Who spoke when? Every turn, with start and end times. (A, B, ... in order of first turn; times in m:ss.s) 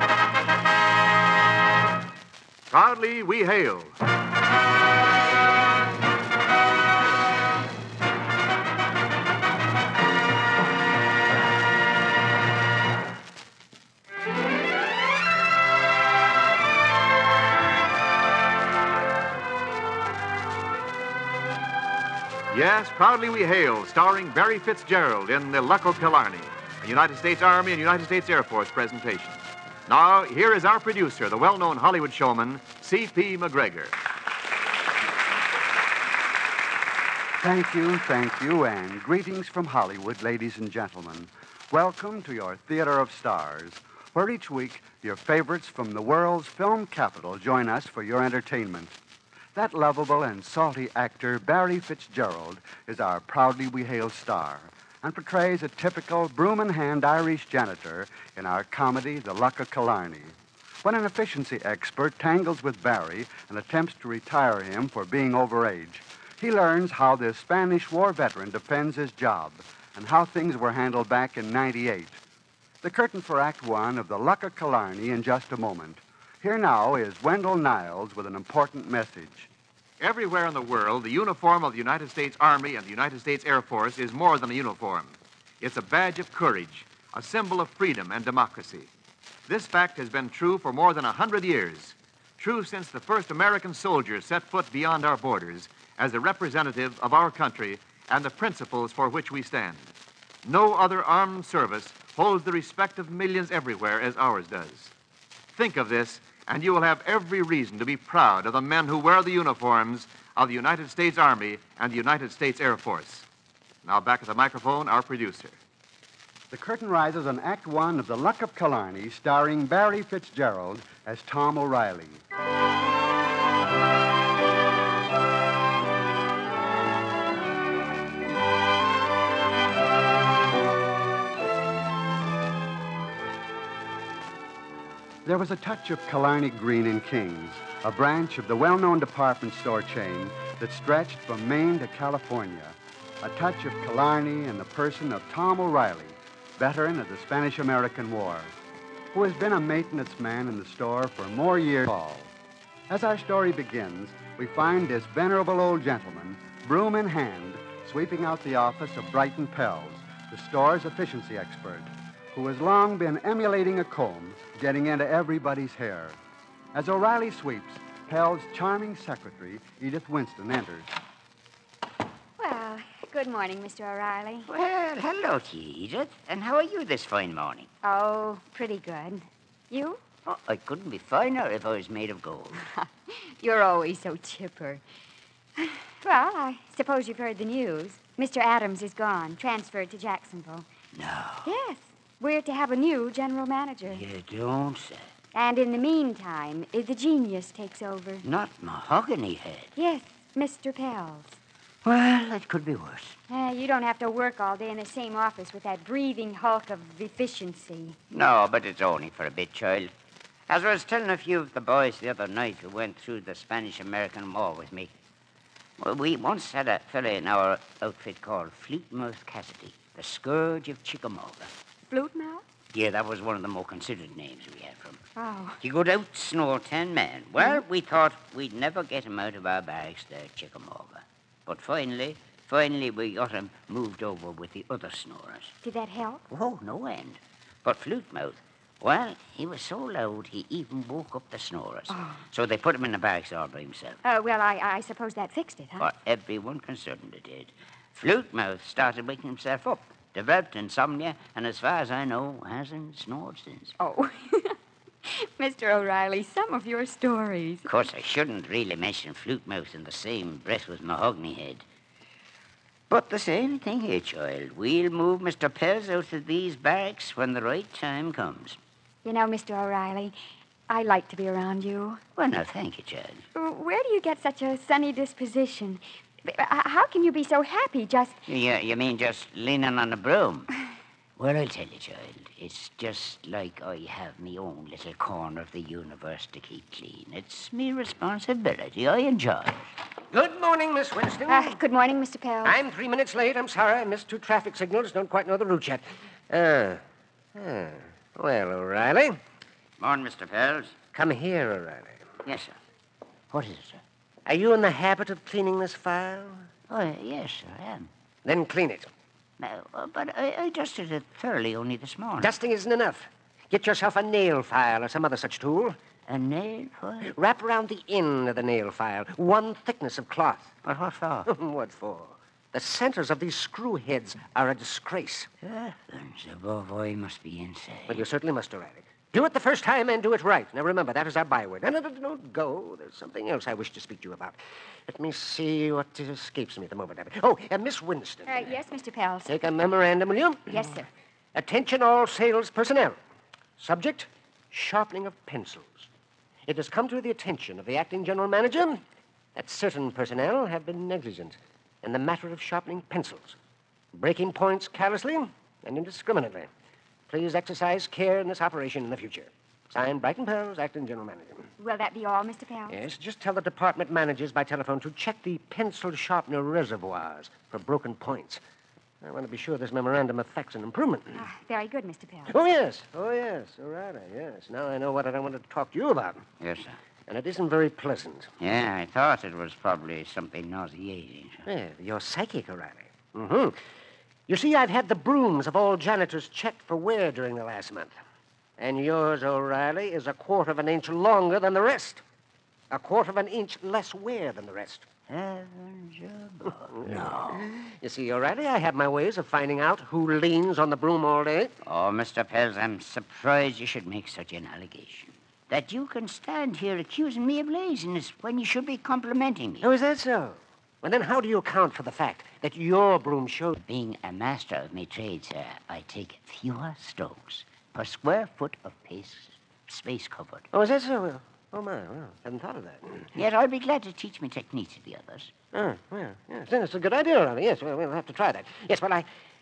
0:02.7-0:04.0 A
0:22.5-0:34.0 A
0:37.4-0:48.9 B
0:49.6-1:12.2 B
1:12.8-1:19.5 B
1:20.0-1:28.9 A
1:29.5-1:39.9 A
1:40.4-1:44.9 A
1:45.5-1:53.2 A
1:53.8-1:55.6 A
1:56.5-2:02.2 B
2:15.2-2:28.5 B
2:29.1-2:32.3 B
2:32.9-2:46.2 B
2:46.7-2:50.9 B
2:52.4-2:54.5 C
2:54.5-2:57.7 D
2:57.8-3:00.0 C
3:00.3-3:02.6 D
3:02.6-3:04.8 C
3:05.6-3:10.7 C
3:10.9-3:11.5 D
3:11.4-3:14.0 C
3:13.9-3:15.1 D
3:15.3-3:18.2 C
3:18.2-3:19.7 D
3:19.8-3:21.4 C
3:21.8-3:23.2 D
3:23.3-3:28.0 C
3:28.1-3:29.9 D
3:30.5-3:34.9 D
3:35.8-3:41.5 D
3:41.9-3:42.4 C
3:42.7-3:45.0 D
3:45.2-3:45.6 C
3:45.6-3:55.5 D
3:55.6-3:56.2 C
3:56.3-4:04.0 D
4:01.9-4:02.2 C
4:04.0-4:05.8 C
4:05.8-4:13.8 D
4:13.8-4:17.7 C
4:17.6-4:21.6 D
4:22.9-4:28.6 D
4:29.0-4:30.1 C
4:30.7-4:32.0 C
4:32.2-4:33.2 D
4:33.3-4:38.2 C
4:38.3-4:40.5 D
4:41.2-4:49.6 D
4:50.1-4:51.6 E
4:51.3-4:52.6 C
4:52.4-4:56.8 E
4:57.3-4:59.2 E
4:59.8-5:00.8 D
5:00.9-5:02.0 E
5:02.2-5:02.6 D
5:03.3-5:03.8 D
5:04.2-5:06.5 E
5:06.7-5:07.9 D
5:08.2-5:08.9 E
5:09.4-5:12.3 D
5:12.2-5:15.8 E
5:16.1-5:17.1 D
5:17.1-5:20.5 E
5:20.6-5:21.3 D
5:21.2-5:25.3 E
5:25.4-5:28.1 D
5:27.9-5:38.5 E
5:38.2-5:39.3 C
5:39.3-5:40.7 E
5:40.5-5:40.9 C
5:41.3-5:43.0 E
5:43.6-5:45.9 E
5:46.5-5:48.8 E
5:49.3-5:53.4 E
5:53.9-5:56.5 E
5:57.1-6:01.5 E
6:01.6-6:02.8 C
6:02.7-6:08.4 E
6:09.0-6:11.2 E
6:11.1-6:12.3 C
6:12.3-6:16.2 E
6:16.4-6:16.8 D
6:17.1-6:18.3 E
6:18.4-6:21.5 D
6:21.4-6:23.6 E
6:24.3-6:27.9 E
6:28.6-6:32.0 E
6:32.7-6:34.8 E
6:35.1-6:37.4 D
6:36.8-6:41.5 E
6:41.6-6:49.6 D
6:49.6-6:53.5 E
6:53.5-7:00.5 D
7:00.5-7:03.1 E
7:03.1-7:05.3 D
7:05.5-7:09.1 E